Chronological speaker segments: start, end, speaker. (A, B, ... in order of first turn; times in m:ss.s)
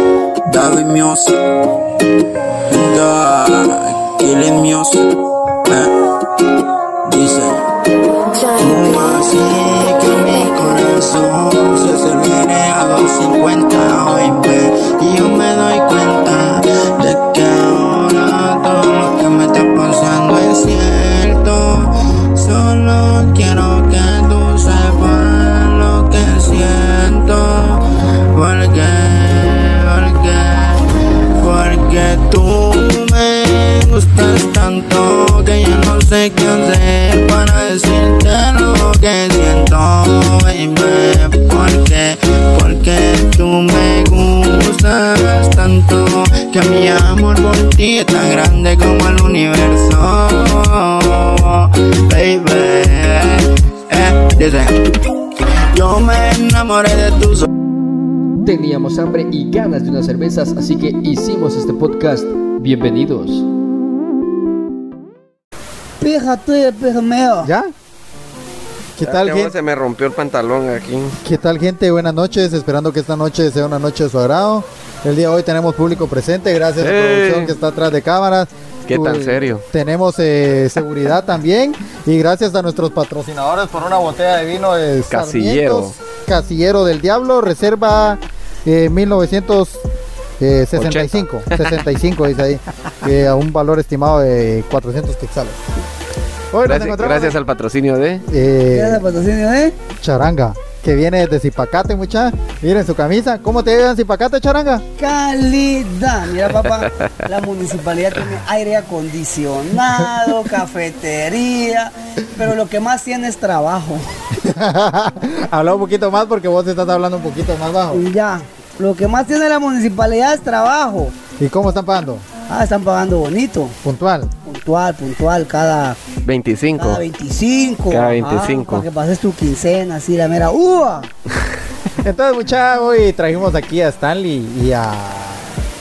0:00.4-0:01.5 A
0:02.7-0:05.9 A
0:07.0-0:07.7 A
0:08.4-0:57.5 A
0:58.4-1:03.5 B
1:06.0-1:07.5 C
1:07.4-1:07.7 D
1:09.0-1:09.5 D
1:09.0-1:11.2 E
1:11.2-1:29.8 D
1:16.8-1:17.5 E
1:18.9-1:19.6 E
1:25.1-1:25.9 E
1:30.4-1:35.6 D
1:30.7-1:31.7 E
1:36.5-1:37.3 D
1:36.6-1:38.2 E
1:38.3-1:39.0 D
1:38.7-1:39.8 C
1:40.0-1:44.8 D
1:45.0-1:54.0 C
1:54.4-1:58.0 D
1:57.9-2:01.1 C
2:01.4-2:02.2 D
2:02.5-2:03.8 C
2:03.8-2:04.3 D
2:04.4-2:06.0 C
2:06.2-2:07.0 E
2:06.8-2:11.1 C
2:07.9-2:08.8 E
2:12.0-2:15.5 D